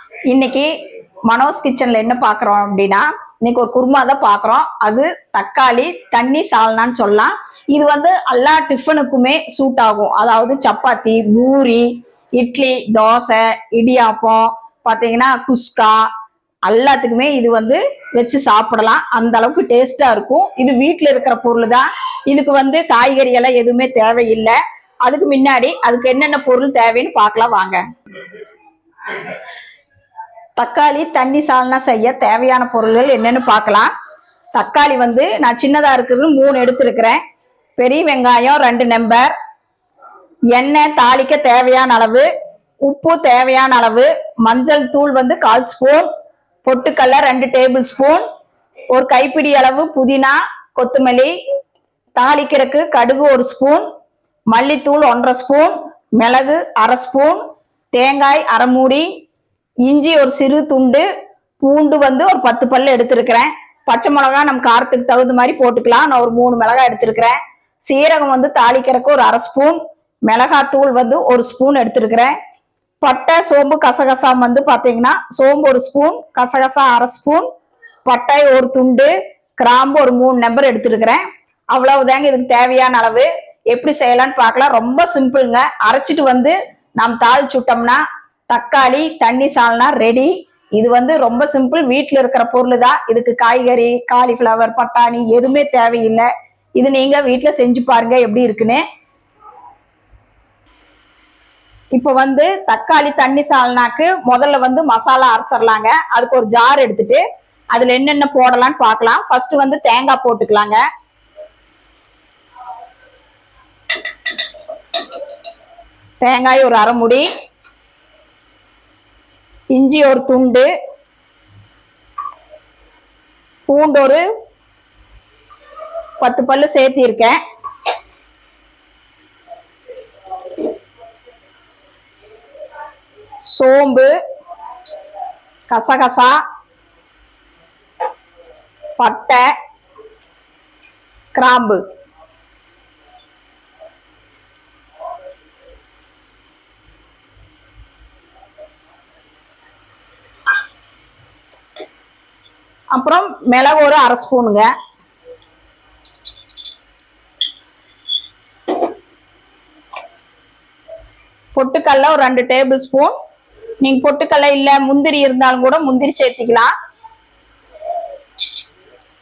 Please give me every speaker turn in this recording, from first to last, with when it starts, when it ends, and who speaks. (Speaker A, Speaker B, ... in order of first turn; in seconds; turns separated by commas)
Speaker A: 0.3-0.7, Speaker A: 1.2-16.1, Speaker A: 16.6-27.8, Speaker A: 30.6-33.9, Speaker A: 34.5-37.2, Speaker A: 37.8-39.3, Speaker A: 40.5-42.3, Speaker A: 42.8-46.1, Speaker A: 46.6-48.2, Speaker A: 48.9-51.3, Speaker A: 52.1-53.9, Speaker A: 54.5-59.1, Speaker A: 59.9-61.1, Speaker A: 61.6-72.3, Speaker A: 73.0-77.5, Speaker A: 78.0-98.8, Speaker A: 101.9-110.8, Speaker A: 116.2-117.3, Speaker A: 119.7-120.7, Speaker A: 123.7-124.2, Speaker A: 126.2-127.4, Speaker A: 133.5-134.1, Speaker A: 135.7-136.4, Speaker A: 139.0-139.5, Speaker A: 141.3-141.8, Speaker A: 152.9-154.7, Speaker A: 161.5-163.1, Speaker A: 163.8-166.7